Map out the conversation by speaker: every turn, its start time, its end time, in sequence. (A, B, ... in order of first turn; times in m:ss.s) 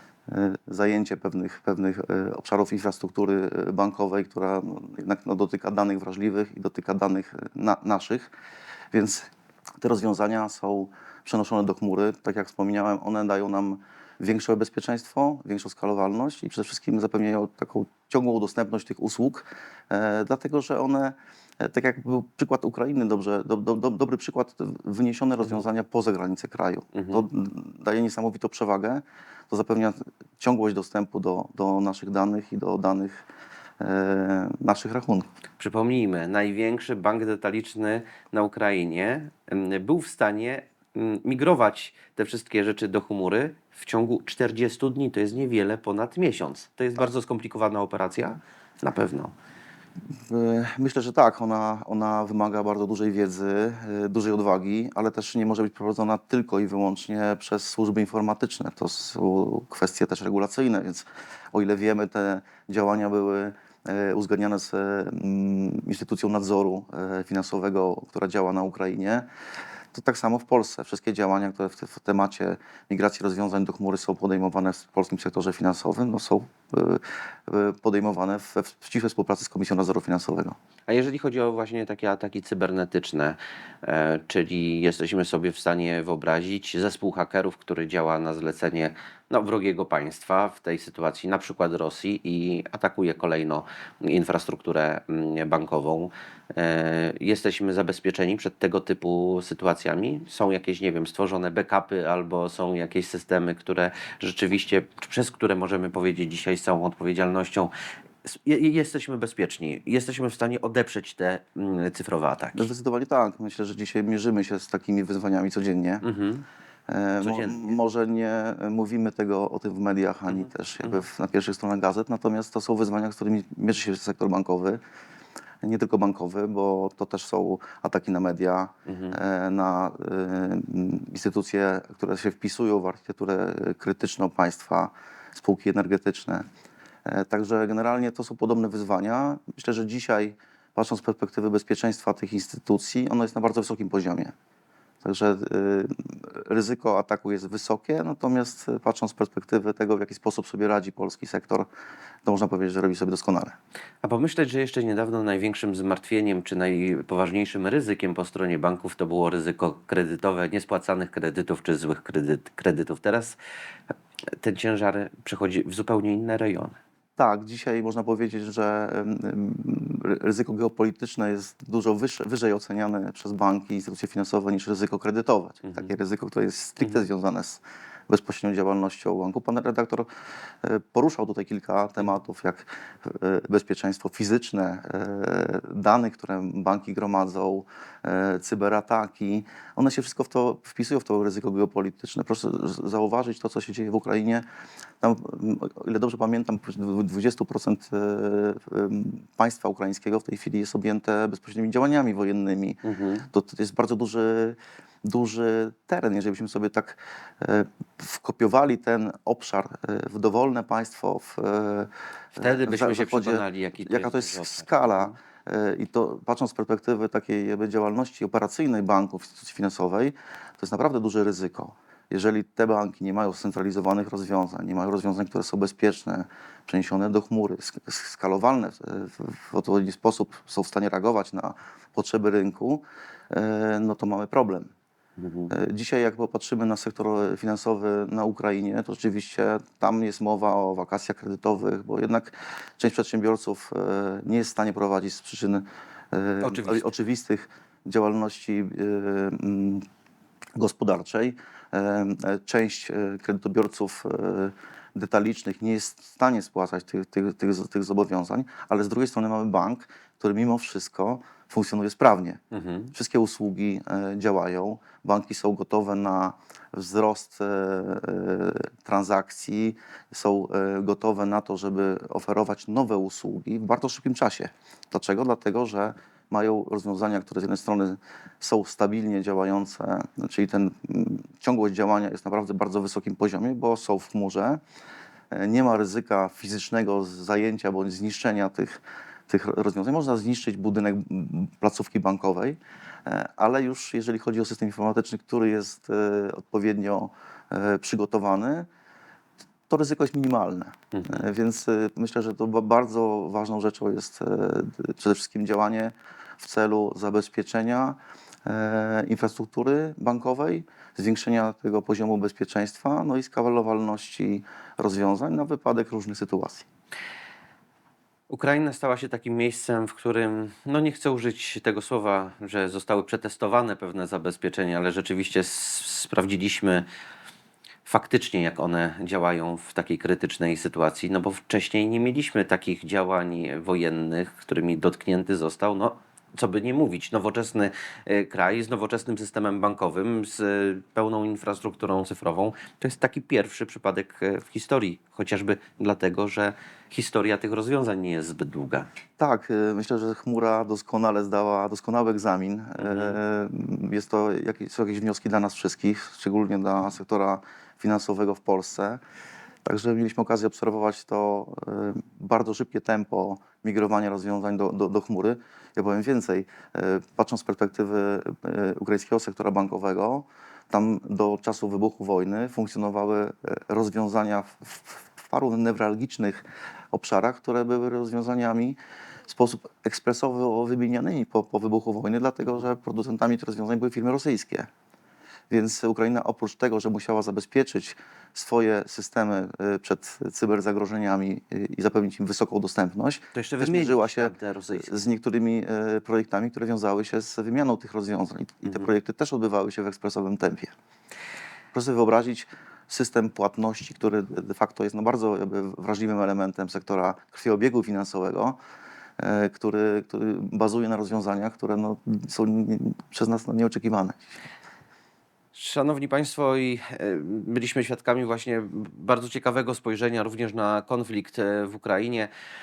0:00.3-0:08.3 A
0:08.9-0:09.3 A
0:09.8-0:33.3 A
0:26.9-0:27.2 B
0:33.8-0:35.3 A
0:35.6-0:49.3 B
0:50.3-1:09.3 A
1:09.9-1:20.6 A
1:20.9-1:47.7 B
1:48.2-1:52.7 B
1:52.6-1:56.0 A
1:56.0-1:56.4 B
1:56.9-2:04.8 A
1:57.2-1:57.7 B
2:05.6-2:16.4 A
2:08.9-2:09.2 B
2:17.1-2:24.3 A
2:25.0-2:31.7 A
2:32.2-2:33.6 A
2:34.0-2:43.4 B
2:44.4-2:46.8 B
2:47.2-3:00.1 A
2:55.7-2:55.9 B
3:00.6-3:14.4 A
3:15.0-3:22.8 A
3:22.8-3:23.3 B
3:23.3-3:54.7 A
3:32.4-3:35.1 B
3:55.2-3:55.5 B
3:55.5-4:09.8 A
4:06.4-4:06.9 B
4:10.6-4:22.4 A
4:22.5-4:22.9 B
4:22.9-4:44.6 A
4:45.3-4:58.7 A
4:59.7-5:16.6 A
5:00.9-5:01.2 B
5:18.3-5:26.8 B
5:27.9-5:48.9 B
5:49.2-5:59.0 A
5:52.8-5:53.2 B
5:59.6-6:24.7 A
6:25.5-6:40.7 A
6:33.3-6:35.0 B
6:41.7-6:48.6 A
6:49.2-6:54.2 A
6:55.5-7:02.3 B